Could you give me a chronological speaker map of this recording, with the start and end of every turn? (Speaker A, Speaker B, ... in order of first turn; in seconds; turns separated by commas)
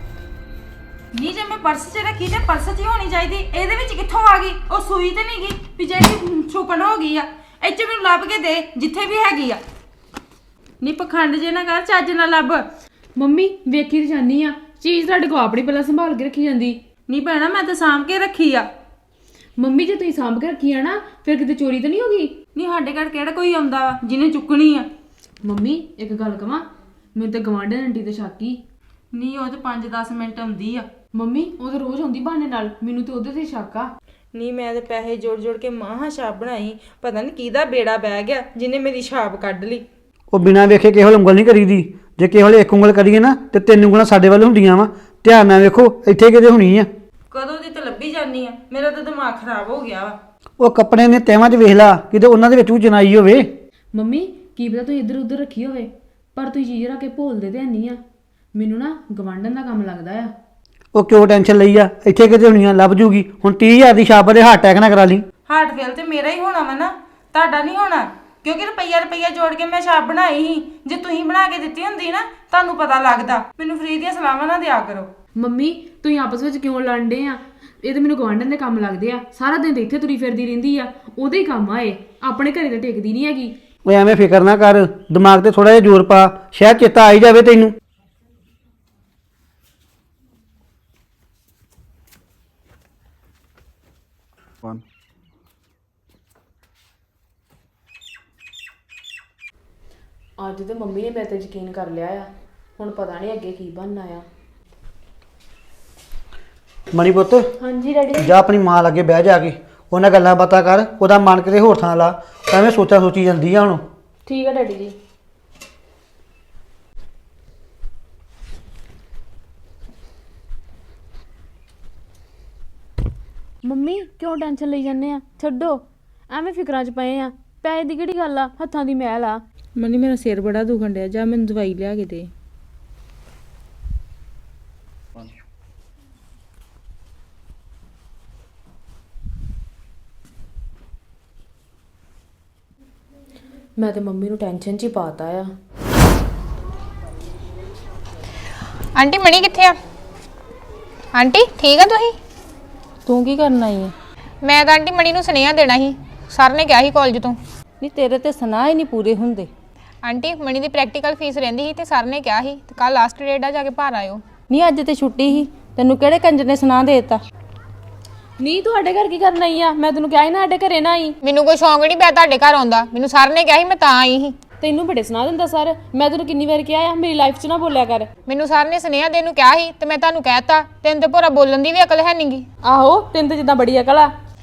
Speaker A: 1.1-9.6, Speaker A: 10.8-12.6, Speaker B: 13.2-16.8, Speaker A: 17.1-18.7, Speaker B: 19.6-22.3, Speaker A: 22.5-24.9, Speaker B: 25.4-26.6, Speaker B: 27.1-28.6, Speaker A: 29.1-30.9, Speaker B: 31.1-33.9, Speaker A: 34.3-39.8, Speaker C: 40.3-46.9, Speaker A: 47.3-50.2, Speaker C: 50.6-53.5, Speaker B: 53.9-58.0, Speaker B: 58.5-60.3, Speaker C: 60.9-65.2, Speaker A: 65.5-75.1, Speaker B: 75.3-83.5, Speaker C: 83.8-87.7, Speaker B: 100.4-104.2, Speaker C: 106.9-107.5, Speaker B: 107.6-108.4, Speaker C: 108.1-113.8, Speaker B: 114.2-114.9, Speaker B: 123.6-129.4, Speaker A: 129.8-132.3, Speaker B: 143.8-145.5, Speaker D: 148.9-149.8, Speaker D: 151.1-152.2, Speaker A: 153.1-153.9, Speaker D: 154.4-157.4, Speaker A: 157.8-159.5, Speaker D: 160.0-164.2, Speaker A: 164.5-167.2, Speaker B: 168.4-171.2, Speaker D: 171.2-174.4, Speaker B: 174.6-178.1, Speaker D: 178.3-182.4, Speaker B: 182.6-184.1